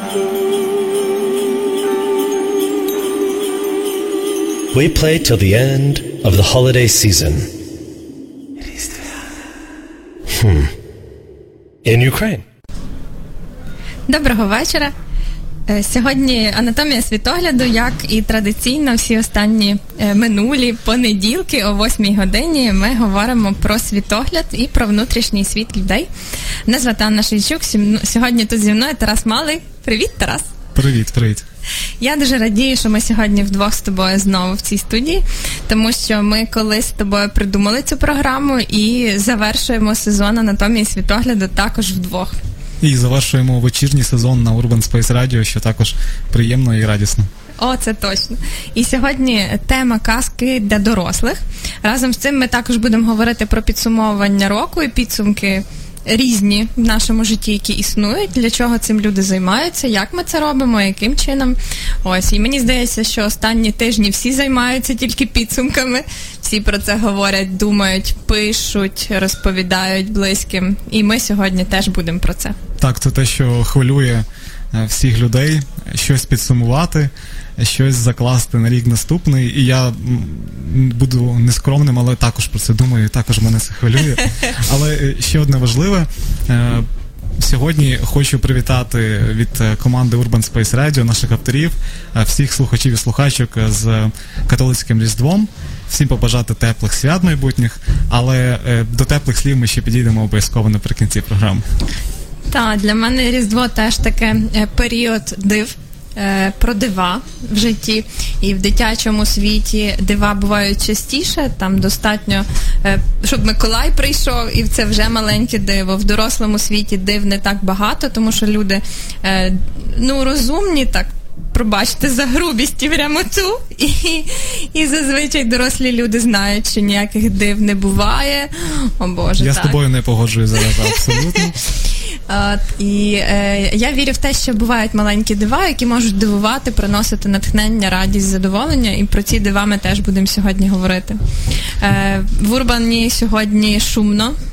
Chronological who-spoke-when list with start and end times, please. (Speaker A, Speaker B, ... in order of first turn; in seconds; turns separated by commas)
Speaker A: 4.7-7.5, Speaker A: 10.3-10.7, Speaker A: 11.8-12.4, Speaker B: 14.1-14.9, Speaker B: 15.7-26.1, Speaker B: 26.7-30.5, Speaker C: 30.7-31.4, Speaker B: 32.0-42.4, Speaker C: 42.8-47.3, Speaker B: 47.6-72.5, Speaker C: 72.8-86.9, Speaker C: 87.4-101.6, Speaker B: 102.5-129.8, Speaker C: 129.4-131.6, Speaker B: 130.9-131.4, Speaker B: 132.3-144.3